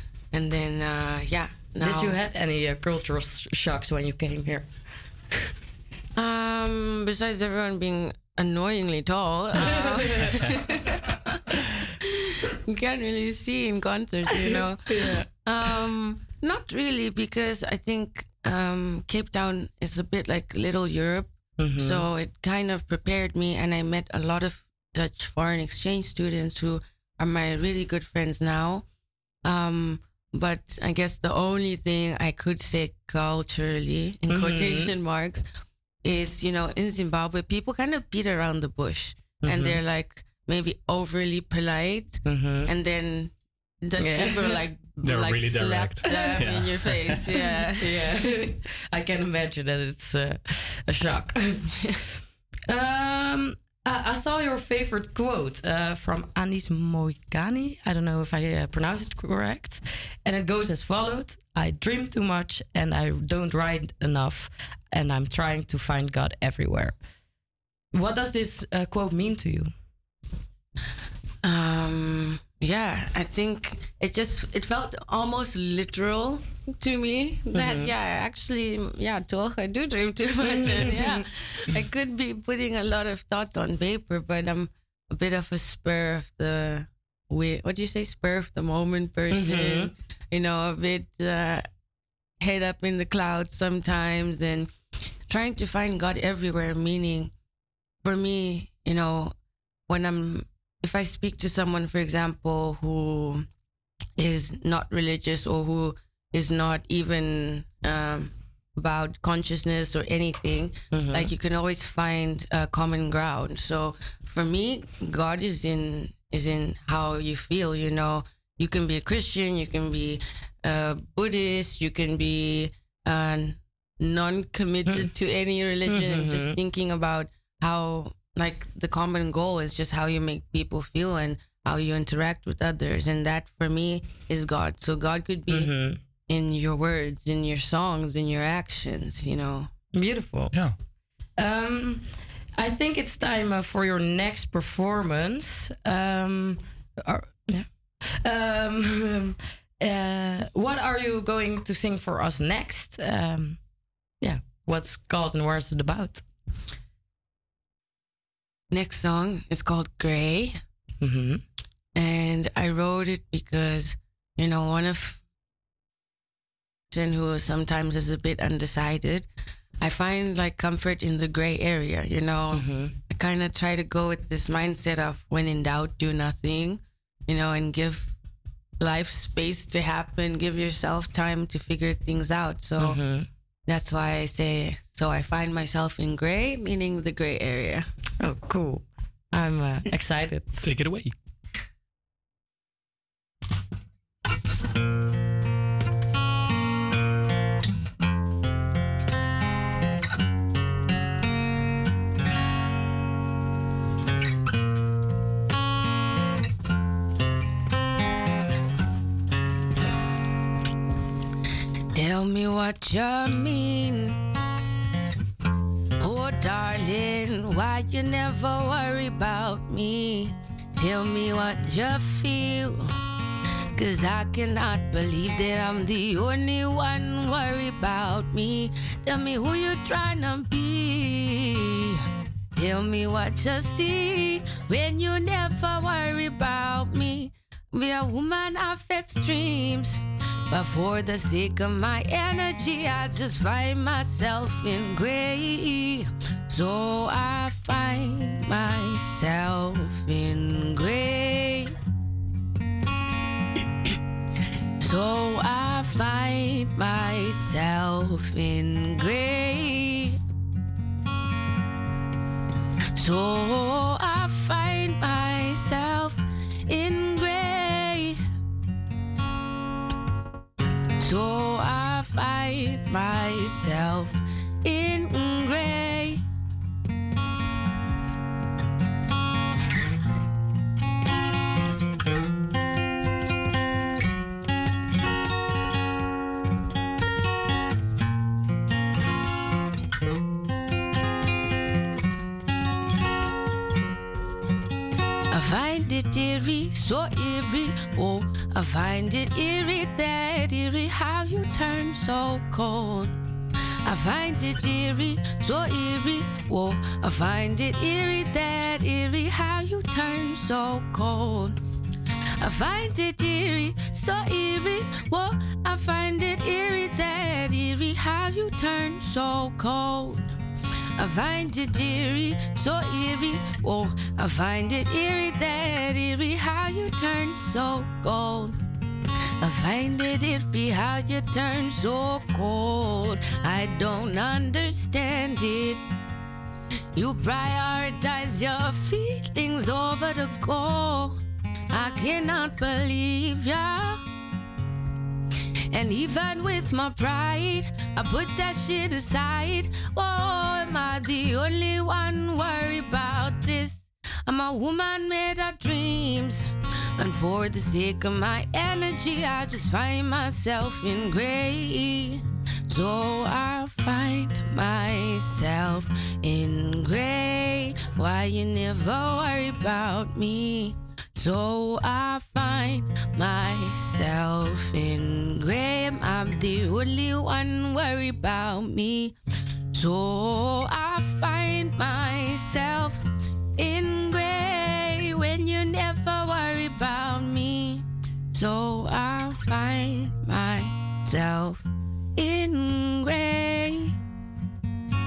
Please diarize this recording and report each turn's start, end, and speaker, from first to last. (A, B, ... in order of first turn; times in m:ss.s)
0:00.3-0:02.2 A
0:01.8-0:04.7 B
0:06.2-0:11.2 A
0:12.7-0:28.8 A
0:14.3-0:15.2 B
0:21.6-0:22.0 B
0:29.4-0:35.4 A
0:34.3-0:34.9 B
0:36.0-0:43.3 A
0:39.4-0:39.8 B
0:42.2-0:42.7 B
0:43.8-0:48.4 A
0:44.0-0:44.5 B
0:45.0-0:47.2 C
0:47.8-0:51.7 B
0:52.7-1:07.0 B
1:07.9-1:09.7 B
1:11.4-1:31.7 A
1:17.6-1:17.8 B
1:29.3-1:29.9 B
1:32.4-1:34.7 A
1:35.3-1:37.3 A
1:38.0-1:39.3 A
1:39.9-1:43.4 A
1:44.2-2:19.7 A
1:50.9-1:51.3 B
2:05.9-2:06.5 B
2:15.5-2:16.0 B
2:19.9-2:20.5 B
2:21.4-2:27.7 B
2:28.2-2:33.6 B
2:34.2-2:36.2 B
2:38.7-2:40.6 A
2:41.0-2:41.4 B
2:41.9-2:45.2 A
2:46.9-2:49.3 A
2:49.8-2:58.1 A
2:52.5-2:52.9 B
2:58.8-3:03.0 A
3:02.8-3:03.2 B
3:03.7-3:07.9 A
3:08.2-3:10.6 B
3:10.6-3:11.1 C
3:31.9-3:34.2 A
3:36.0-3:42.8 A
3:43.8-3:52.0 A
3:52.5-4:11.7 A
4:14.8-4:20.2 A
4:23.0-4:28.2 A
4:31.0-4:36.2 A
4:55.3-5:03.1 A
5:03.8-5:11.5 A
5:12.4-5:20.2 A
5:21.0-5:28.6 A
5:29.4-5:35.8 A
5:36.9-5:41.2 A
5:41.7-5:44.0 A
5:45.7-6:19.1 A
6:19.7-6:23.0 A
6:23.6-6:31.6 A
6:32.2-6:33.9 A